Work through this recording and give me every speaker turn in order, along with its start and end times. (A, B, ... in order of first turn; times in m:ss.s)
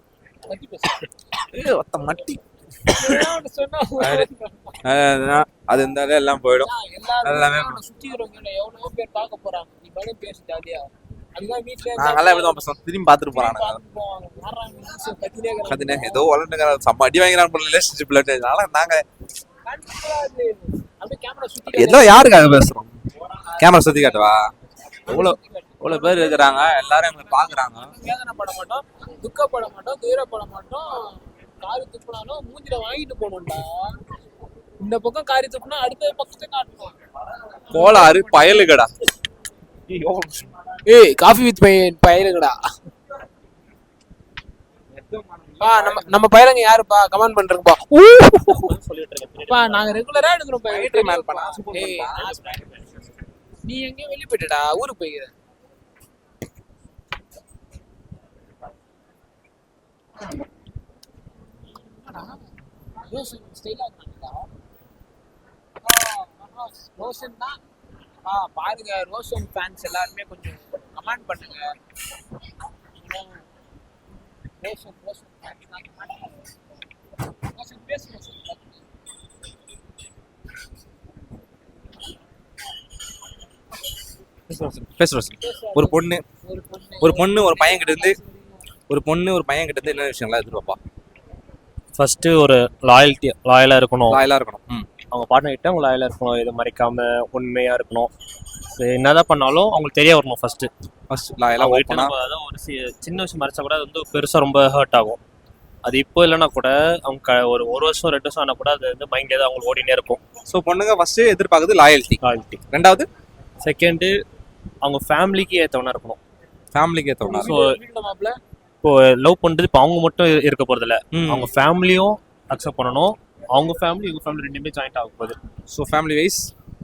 0:00.5-0:01.1 A
0:01.4-0:03.3 B
0:02.9-0:04.8 A
0:04.0-0:04.3 B
0:04.8-0:06.7 B
0:06.6-0:12.6 A
0:07.2-0:07.8 B
0:12.0-0:13.8 B
0:13.3-0:16.2 A
0:15.7-0:19.0 B
0:19.6-0:22.4 A
0:21.7-0:22.9 B
0:23.5-0:24.3 A
0:23.6-0:24.4 B
0:25.0-0:34.0 A
0:25.1-0:27.9 B
0:34.8-0:37.0 A
0:37.7-0:38.7 A
0:37.7-0:38.9 B
0:39.9-0:40.5 B
0:40.9-0:42.6 A
0:44.9-0:46.2 B
0:45.6-0:48.7 A
0:48.5-0:50.0 C
0:49.5-0:52.8 A
0:50.7-0:52.6 B
0:53.7-0:55.3 A
1:02.0-1:02.5 A
1:03.0-1:04.5 A
1:05.8-1:07.6 A
1:08.2-1:11.7 A
1:13.0-1:13.5 A
1:14.6-1:16.4 A
1:17.4-1:18.8 A
1:24.5-1:26.2 B
1:25.4-1:28.6 A
1:27.0-1:28.2 B
1:28.9-1:30.8 B
1:32.0-1:34.2 C
1:34.1-1:34.9 B
1:35.1-1:38.1 C
1:38.8-1:40.7 C
1:41.1-1:42.1 B
1:41.5-1:45.2 C
1:45.8-1:50.2 C
1:50.5-1:53.1 B
1:52.2-1:52.6 C
1:53.6-1:54.2 C
1:54.8-1:56.2 C
1:56.7-1:57.5 B
1:57.2-1:58.4 A
1:57.4-1:57.7 C
1:58.8-2:05.4 C
2:01.1-2:01.5 B
2:05.7-2:06.5 B